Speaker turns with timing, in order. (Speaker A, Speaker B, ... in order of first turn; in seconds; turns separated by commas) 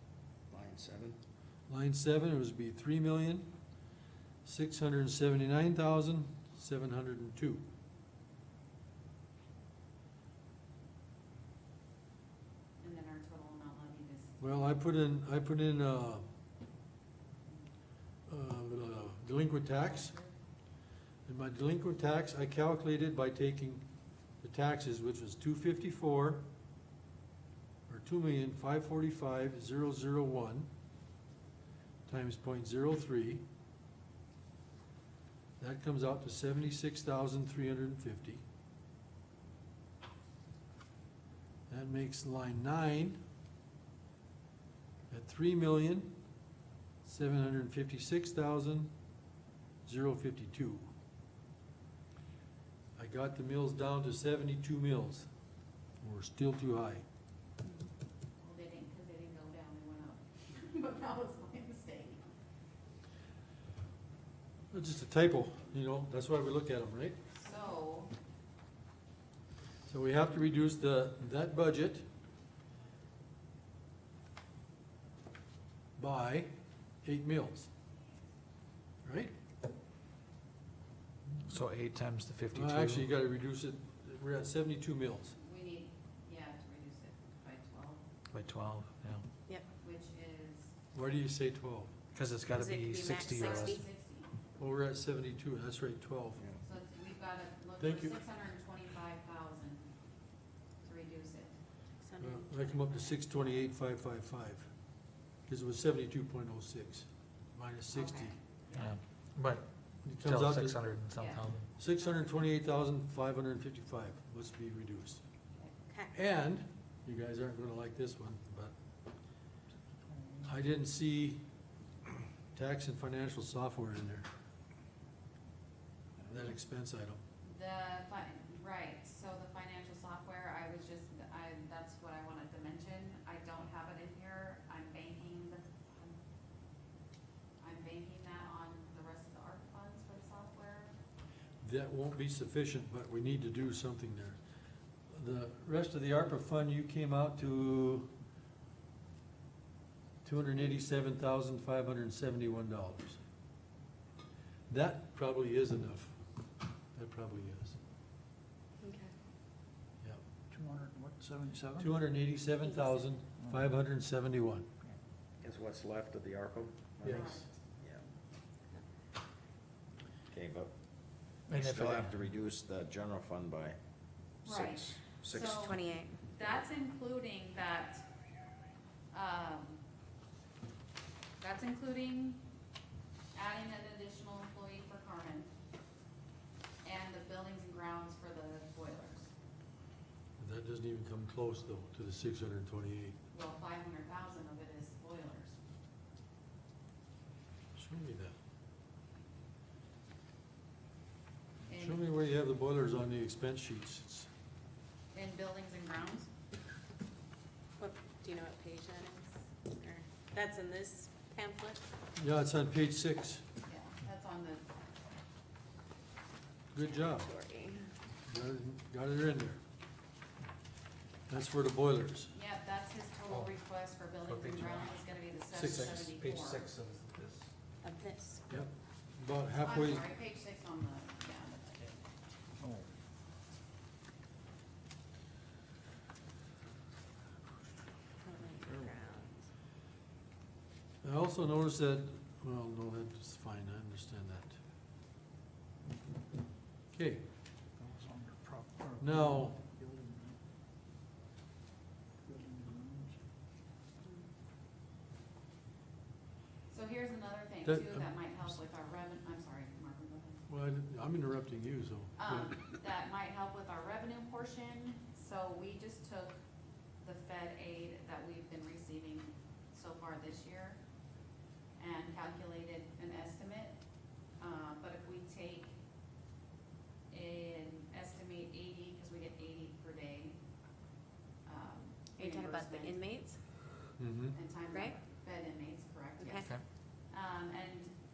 Speaker A: 0.5-1.2, Speaker B: 1.7-3.5, Speaker B: 4.5-7.7, Speaker C: 12.8-14.8, Speaker B: 14.4-16.3, Speaker B: 18.3-20.1, Speaker C: 19.7-20.3, Speaker B: 21.3-23.8, Speaker B: 24.4-26.4, Speaker B: 27.9-30.7, Speaker B: 32.1-33.4, Speaker B: 35.6-38.4, Speaker B: 41.7-43.2, Speaker B: 45.1-46.2, Speaker B: 47.0-48.9, Speaker B: 49.9-50.9, Speaker B: 53.0-55.3, Speaker B: 56.0-57.0, Speaker C: 58.4-62.3, Speaker B: 64.7-67.2, Speaker C: 67.3-68.1, Speaker B: 69.9-72.1, Speaker B: 76.0-76.5, Speaker B: 77.0-77.7, Speaker B: 79.0-79.3, Speaker D: 81.5-83.1, Speaker B: 82.5-85.3, Speaker C: 85.4-88.0, Speaker D: 88.3-89.3, Speaker C: 89.8-90.7, Speaker B: 90.9-91.9, Speaker D: 92.1-93.8, Speaker E: 92.5-93.8, Speaker C: 93.2-94.3, Speaker B: 94.6-96.4, Speaker C: 96.6-99.9, Speaker B: 97.8-98.2, Speaker C: 100.8-101.6, Speaker E: 102.0-102.6, Speaker B: 102.2-104.7, Speaker C: 102.7-103.7, Speaker B: 105.5-108.3, Speaker C: 107.9-109.0, Speaker D: 108.7-109.7, Speaker B: 110.0-110.8, Speaker D: 110.2-111.7, Speaker C: 111.2-111.6, Speaker B: 111.8-115.2, Speaker E: 115.9-116.1, Speaker B: 116.1-118.7, Speaker F: 120.1-120.5, Speaker B: 120.5-121.4, Speaker B: 122.5-124.3, Speaker B: 126.3-127.2, Speaker C: 127.4-136.2, Speaker C: 137.6-140.9, Speaker B: 141.6-144.4, Speaker B: 145.1-148.1, Speaker B: 150.2-153.2, Speaker B: 154.7-156.2, Speaker B: 156.9-157.8, Speaker E: 158.8-159.1, Speaker F: 160.5-161.9, Speaker B: 161.8-164.7, Speaker E: 162.6-163.2, Speaker A: 165.4-168.0, Speaker B: 167.0-167.4, Speaker C: 167.1-167.5, Speaker A: 170.3-170.7, Speaker D: 171.5-172.2, Speaker A: 171.5-173.8, Speaker C: 174.4-178.0, Speaker A: 174.5-175.7, Speaker E: 175.4-176.2, Speaker C: 179.1-179.8, Speaker C: 181.4-182.4, Speaker C: 183.3-185.5, Speaker C: 186.8-189.3, Speaker B: 190.4-193.2, Speaker C: 193.3-195.6, Speaker B: 197.8-198.3, Speaker C: 201.7-202.0, Speaker B: 201.7-204.3, Speaker C: 205.1-206.3, Speaker E: 207.8-211.8, Speaker B: 212.2-213.4, Speaker C: 213.7-214.6, Speaker B: 216.7-217.3, Speaker E: 216.9-217.9, Speaker B: 218.3-219.6, Speaker B: 221.3-222.3, Speaker C: 222.3-226.7, Speaker D: 224.2-224.9, Speaker B: 225.5-226.1, Speaker D: 225.7-227.4, Speaker E: 227.8-228.4, Speaker B: 228.5-230.1, Speaker C: 229.6-231.9, Speaker F: 232.6-232.9, Speaker E: 238.2-239.5, Speaker B: 241.0-244.6, Speaker B: 246.9-247.2, Speaker F: 247.8-250.4, Speaker B: 249.0-249.6, Speaker F: 252.2-253.2, Speaker C: 256.7-260.4, Speaker B: 257.6-258.5, Speaker B: 260.5-262.6, Speaker C: 262.2-266.4, Speaker C: 267.0-270.8, Speaker C: 271.8-273.8, Speaker C: 274.4-275.8, Speaker C: 277.1-280.4, Speaker C: 281.5-283.0, Speaker E: 282.2-283.4, Speaker B: 284.0-284.4, Speaker C: 284.3-287.9, Speaker E: 286.2-286.5